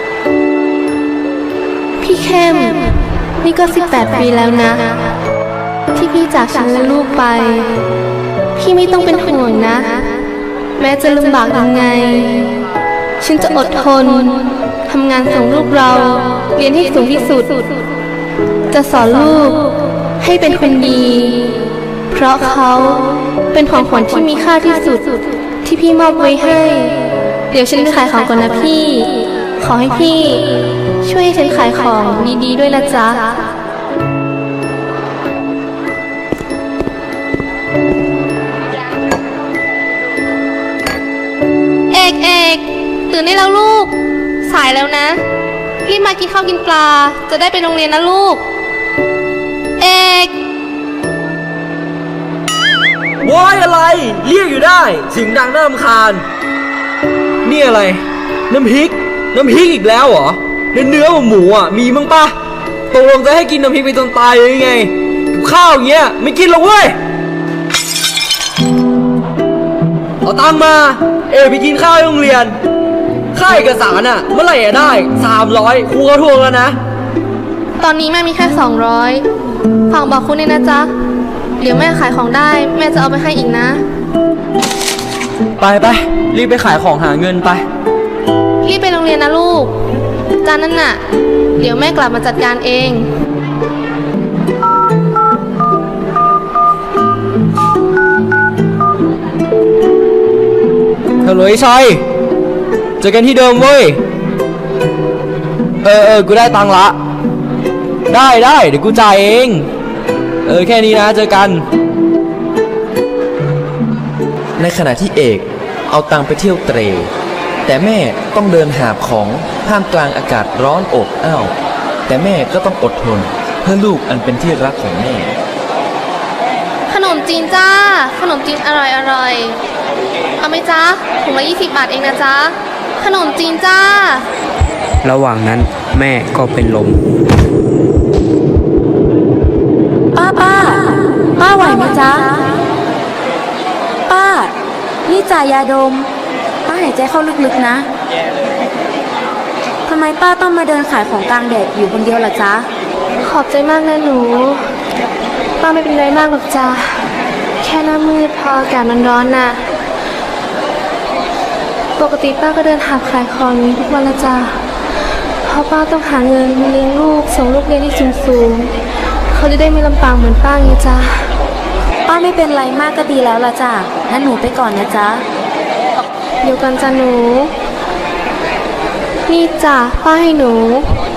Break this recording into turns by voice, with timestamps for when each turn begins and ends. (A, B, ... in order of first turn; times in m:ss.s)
0:02.0-0:05.0 A
0:06.0-0:07.8 A
0:08.6-0:10.2 A
0:10.8-0:12.5 A
0:13.2-0:17.6 A
0:18.7-0:21.6 A
0:22.1-0:33.5 A
0:41.9-0:43.9 A
0:44.4-0:45.2 A
0:45.8-0:48.4 A
0:49.8-0:50.3 A
0:53.2-0:56.2 B
0:57.4-1:02.3 B
1:02.9-1:07.0 B
1:10.2-1:12.6 B
1:13.4-1:16.8 B
1:17.8-1:19.2 A
1:19.9-1:20.9 A
1:21.6-1:23.8 A
1:25.6-1:27.6 B
1:28.6-1:29.7 A
1:30.4-1:31.0 A
1:31.6-1:33.1 A
1:41.2-1:42.0 B
1:43.0-1:44.0 B
1:45.8-1:47.0 B
1:48.1-1:49.7 B
1:50.5-1:51.6 B
1:54.6-1:57.1 C
1:57.7-2:01.5 C
2:02.1-2:05.4 C
2:06.9-2:09.6 A
2:10.4-2:14.2 A
2:15.0-2:17.0 D
2:20.2-2:22.5 E
2:24.1-2:24.5 E
2:25.1-2:26.1 E
2:26.7-2:27.9 E
2:29.9-2:32.7 E
2:33.2-2:34.6 A
2:35.6-2:36.8 A
2:37.6-2:39.6 A
2:42.0-2:44.5 A
2:45.4-2:48.7 A
2:49.3-2:51.1 A
2:52.1-2:55.2 E
2:56.4-2:57.5 A
2:59.3-3:00.9 A